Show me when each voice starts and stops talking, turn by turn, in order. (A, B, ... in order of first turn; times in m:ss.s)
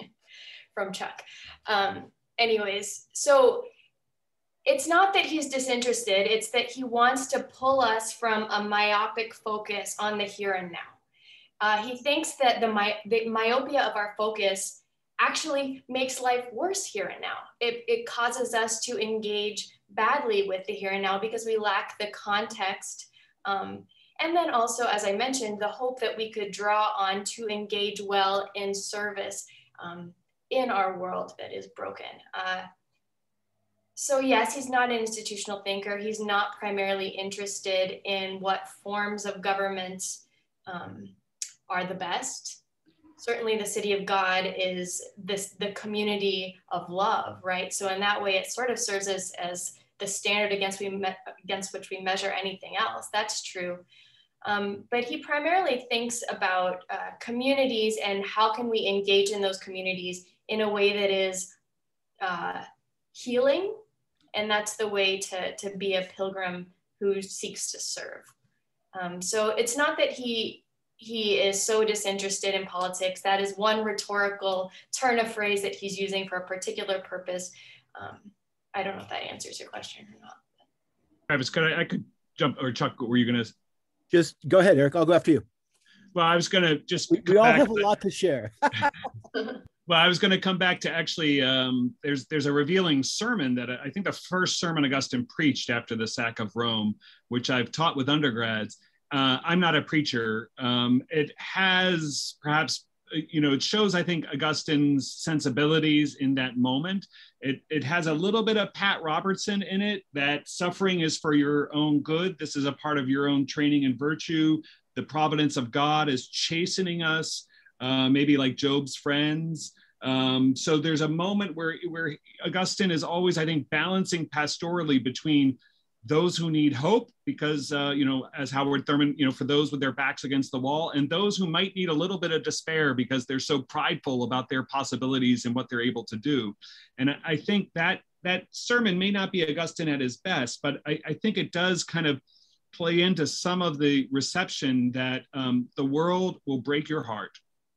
0:00.7-0:03.7 A
0:04.6-0:11.0 A
0:11.6-0:32.7 A
0:34.0-0:41.1 A
0:41.7-0:42.6 A
0:43.2-0:53.8 A
0:54.4-1:01.5 A
1:02.2-1:03.8 A
1:04.3-1:08.3 A
1:08.9-1:20.4 A
1:21.3-1:23.5 B
1:24.1-1:25.4 C
1:26.1-1:27.9 B
1:27.1-1:28.9 C
1:29.9-2:22.2 B
2:22.7-2:27.4 B